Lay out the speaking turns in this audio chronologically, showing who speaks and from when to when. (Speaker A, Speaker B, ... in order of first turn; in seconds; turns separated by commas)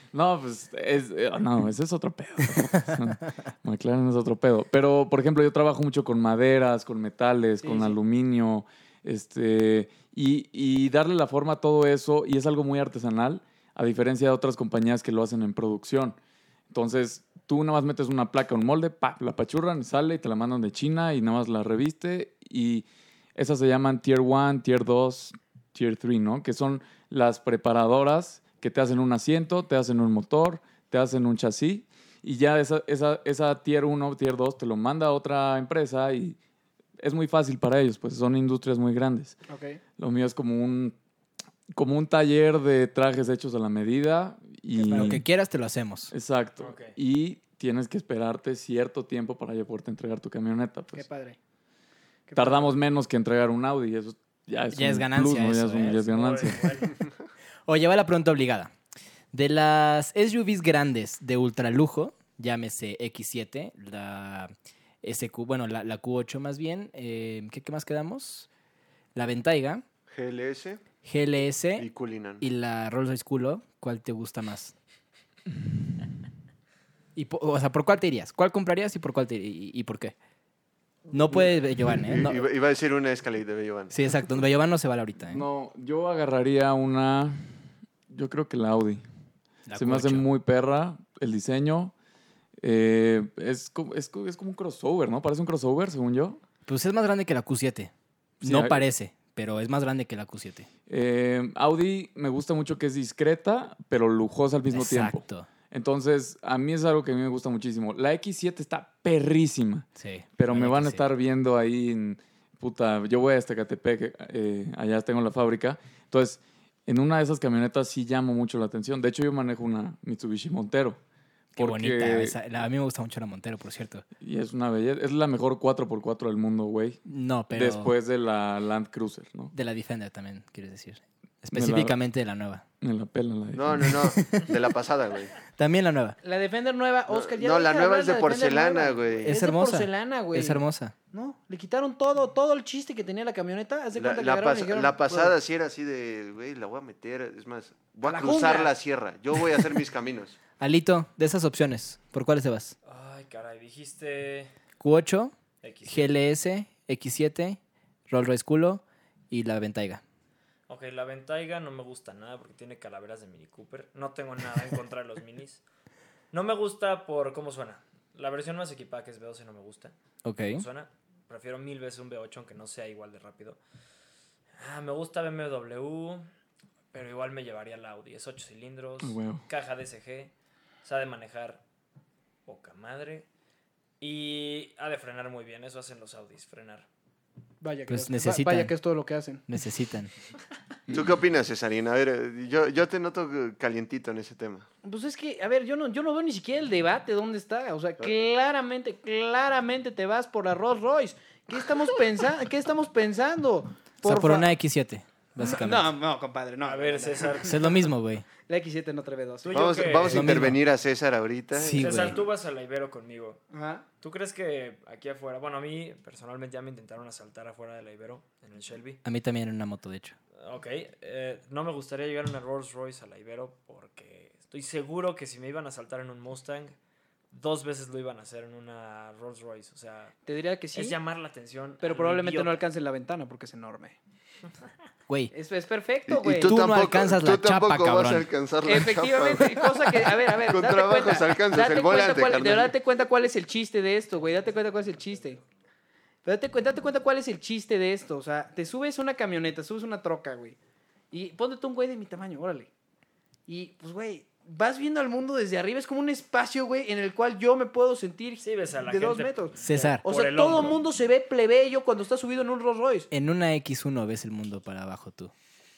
Speaker A: 0.1-16.2, Speaker B: 2.5-3.0, Speaker C: 7.6-8.0, Speaker A: 16.7-36.4, Speaker A: 37.0-39.4, Speaker C: 39.5-39.8, Speaker A: 40.0-41.0, Speaker A: 41.7-45.2, Speaker B: 44.8-46.1, Speaker A: 46.1-51.1, Speaker D: 46.6-46.9, Speaker C: 50.9-51.4, Speaker C: 52.3-52.8, Speaker A: 52.3-56.8, Speaker B: 54.7-56.0, Speaker D: 55.8-57.0, Speaker B: 57.7-58.7, Speaker B: 59.3-68.5, Speaker B: 69.2-69.8, Speaker E: 70.1-70.9, Speaker B: 71.0-71.9, Speaker E: 71.8-72.4, Speaker B: 72.4-74.7, Speaker B: 77.2-80.1, Speaker B: 81.1-82.4, Speaker E: 81.3-84.2, Speaker B: 83.9-85.4, Speaker A: 85.3-87.4, Speaker A: 88.1-89.0, Speaker B: 89.7-90.3, Speaker A: 89.8-91.9, Speaker A: 92.6-96.4, Speaker B: 96.7-97.9, Speaker A: 98.4-98.8, Speaker B: 98.4-100.7, Speaker A: 100.9-121.0, Speaker B: 104.7-105.5, Speaker B: 110.0-111.1, Speaker B: 121.5-124.0, Speaker A: 121.6-122.4, Speaker A: 124.2-129.5, Speaker B: 127.1-127.9, Speaker B: 129.5-132.6, Speaker A: 131.5-132.0, Speaker A: 132.8-134.2, Speaker E: 133.6-135.4, Speaker B: 134.1-134.6, Speaker B: 135.5-136.2, Speaker C: 136.2-145.4, Speaker E: 137.1-139.4, Speaker B: 139.2-140.9, Speaker E: 143.9-150.4, Speaker C: 148.0-148.8, Speaker B: 150.6-152.8, Speaker D: 152.8-154.5, Speaker B: 154.8-155.3, Speaker D: 155.6-156.2, Speaker B: 155.9-160.0, Speaker D: 160.7-165.6, Speaker D: 166.3-169.9, Speaker B: 170.2-170.7, Speaker D: 170.5-173.6, Speaker D: 174.6-176.3, Speaker D: 176.9-180.3, Speaker A: 179.0-179.4, Speaker D: 180.8-181.6, Speaker D: 182.5-183.3, Speaker D: 184.0-186.9, Speaker C: 187.6-189.4, Speaker B: 187.9-188.7, Speaker B: 189.5-190.1, Speaker E: 190.9-194.7, Speaker C: 194.8-204.5, Speaker B: 204.0-205.9, Speaker C: 205.4-207.6, Speaker D: 206.6-207.7, Speaker B: 207.4-208.3, Speaker C: 208.5-209.7, Speaker D: 209.4-210.5, Speaker E: 209.5-212.2, Speaker B: 210.0-210.6, Speaker B: 211.6-212.2, Speaker D: 211.8-213.4, Speaker C: 213.5-213.8, Speaker D: 214.0-219.0, Speaker B: 219.0-220.2, Speaker D: 220.4-226.7, Speaker D: 227.3-230.2, Speaker C: 230.3-231.0, Speaker D: 230.8-232.6, Speaker C: 231.8-234.0, Speaker B: 235.1-235.3, Speaker C: 235.3-236.6, Speaker E: 236.1-239.7, Speaker B: 236.4-238.3, Speaker C: 238.6-245.4, Speaker E: 240.4-242.7, Speaker C: 246.2-250.6, Speaker C: 251.1-252.7, Speaker C: 253.5-263.1, Speaker D: 258.4-260.8, Speaker B: 259.6-260.0, Speaker B: 263.1-265.3